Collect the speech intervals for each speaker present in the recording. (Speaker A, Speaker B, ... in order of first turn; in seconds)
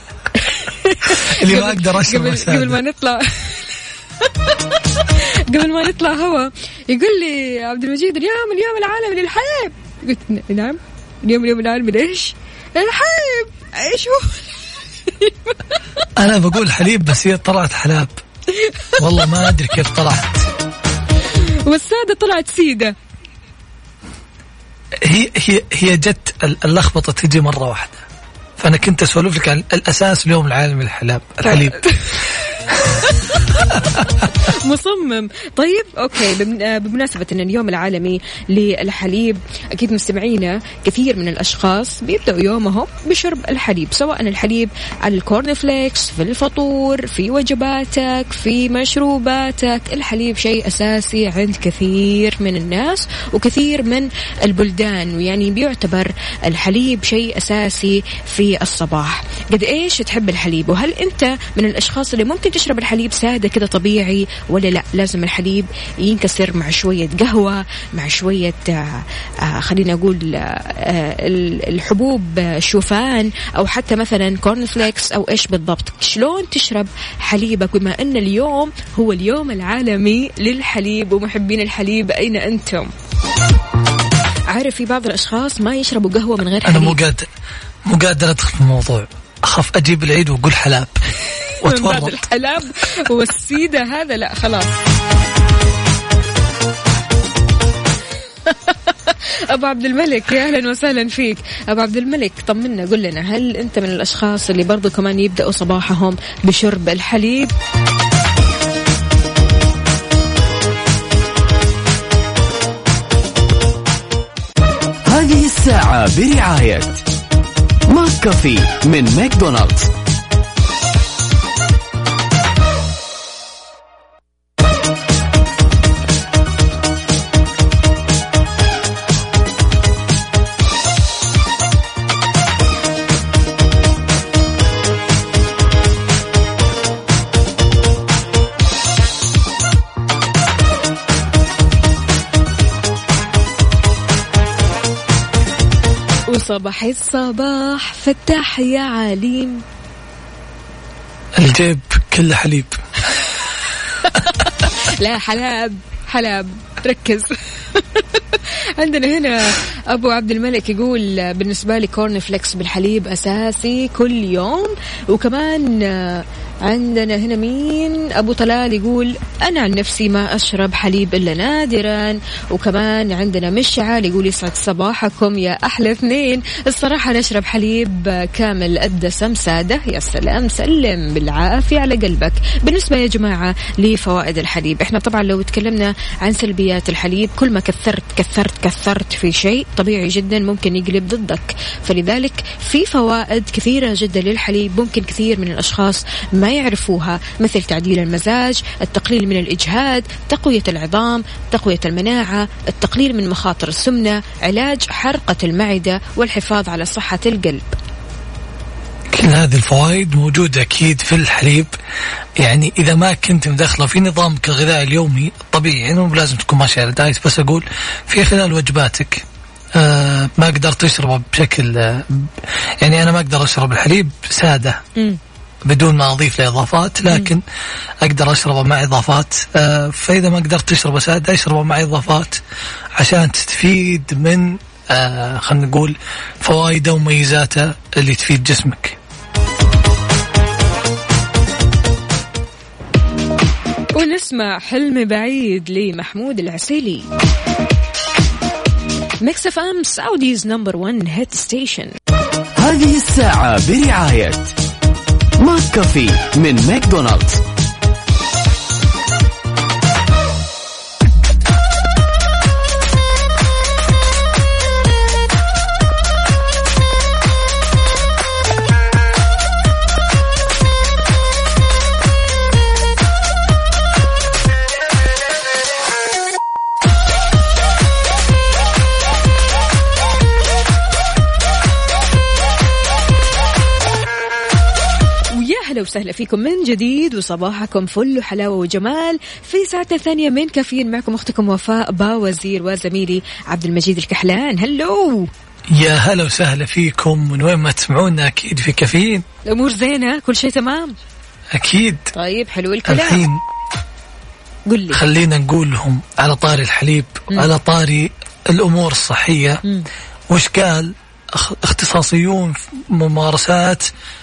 Speaker A: 0.4-15.8, 18.5-18.9, 21.3-22.9, 31.4-82.9, 84.5-87.0, 91.6-94.8, 98.5-107.5, 146.3-149.6, 154.4-207.7, 243.9-247.1, 249.2-251.9, 285.3-295.3, 299.4-300.9, 302.1-303.2, 304.7-305.0
Speaker B: 1.0-2.8, 16.1-18.1, 18.9-20.5, 25.0-28.0, 28.6-31.8, 86.6-87.3, 87.9-91.0, 91.6-92.2, 151.3-152.8, 209.1-211.7, 212.4-224.8, 225.7-227.4, 228.0-232.4, 233.0-239.0, 295.7-299.2, 301.5-302.1, 302.9-303.4, 304.9-309.6, 310.3-313.9
Speaker C: 115.0-117.0, 117.9-119.9, 252.6-254.5, 255.4-257.4